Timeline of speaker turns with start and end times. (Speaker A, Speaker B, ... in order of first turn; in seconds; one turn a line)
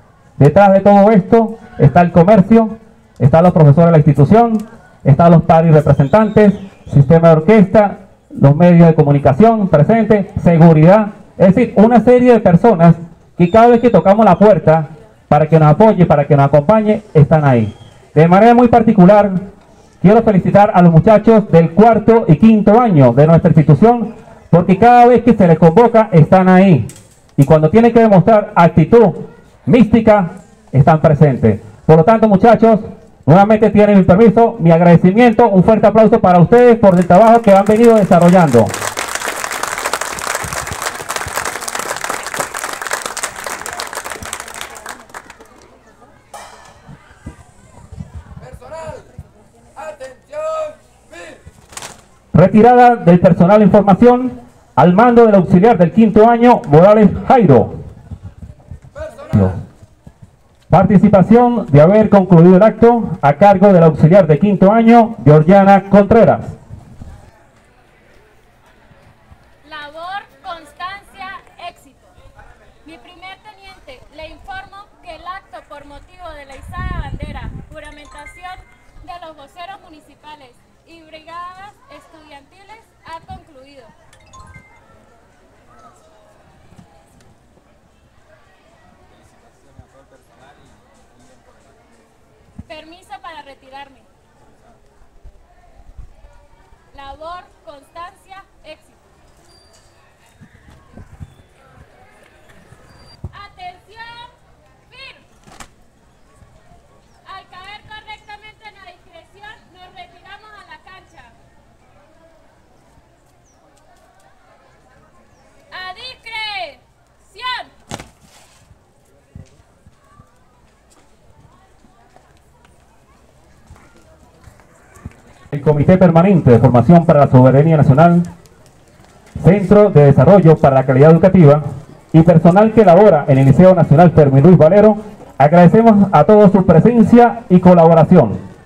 Speaker A: 0.4-19.5
Speaker A: 20.0-38.7
Speaker B: 48.4-49.1
Speaker B: 49.8-51.4
Speaker A: 52.3-57.8
Speaker B: 58.9-59.6
Speaker A: 60.7-66.6
Speaker C: 69.6-72.1
Speaker C: 72.8-83.9
Speaker C: 92.7-94.1
Speaker C: 96.9-99.2
Speaker C: 103.3-104.3
Speaker C: 104.9-105.3
Speaker C: 107.2-111.4
Speaker C: 115.7-117.7
Speaker A: 125.5-128.3
Speaker A: 129.4-138.4